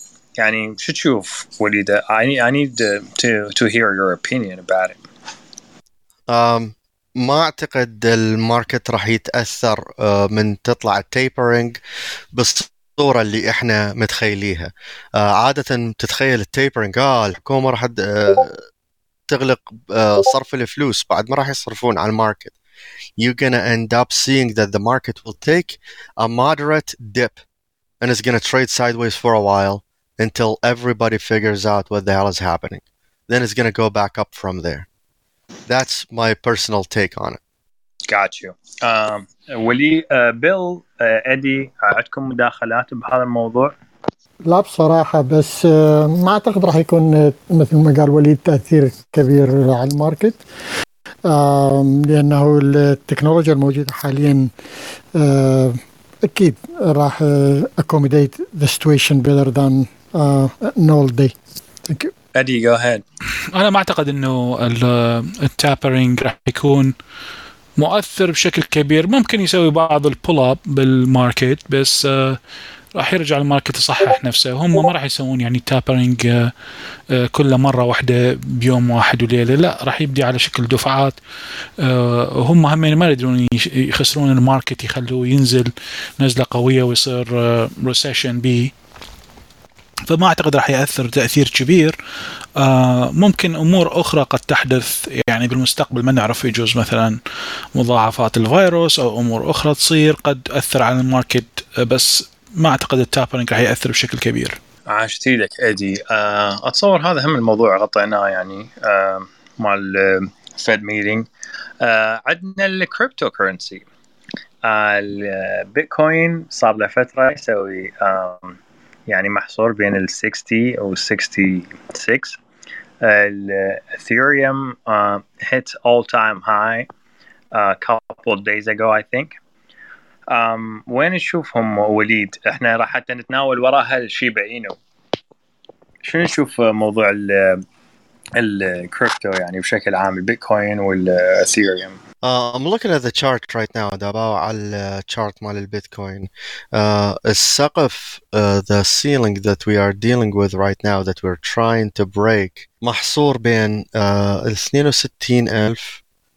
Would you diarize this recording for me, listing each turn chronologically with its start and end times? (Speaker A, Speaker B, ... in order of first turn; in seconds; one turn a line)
Speaker A: 0.4-5.0
Speaker B: 6.3-11.8
Speaker B: 12.3-18.6
Speaker B: 19.3-22.5
Speaker B: 23.2-27.4
Speaker B: 28.0-34.9
Speaker B: 35.7-37.4
Speaker A: 38.1-43.7
Speaker C: 44.5-50.4
Speaker C: 51.2-54.5
Speaker C: 55.1-62.1
Speaker A: 62.3-63.0
Speaker D: 63.5-66.9
Speaker D: 67.8-72.4
Speaker D: 72.9-76.5
Speaker D: 77.1-81.2
Speaker D: 81.8-88.7
Speaker D: 90.1-92.0
Speaker D: 92.6-97.2
Speaker D: 97.7-104.5
Speaker A: 104.9-111.3
Speaker A: 111.8-113.8
Speaker A: 114.6-122.4
Speaker A: 123.0-126.9
Speaker A: 127.5-129.3
Speaker A: 130.3-134.8
Speaker A: 136.0-137.6
Speaker A: 138.3-142.0
Speaker B: 142.2-156.0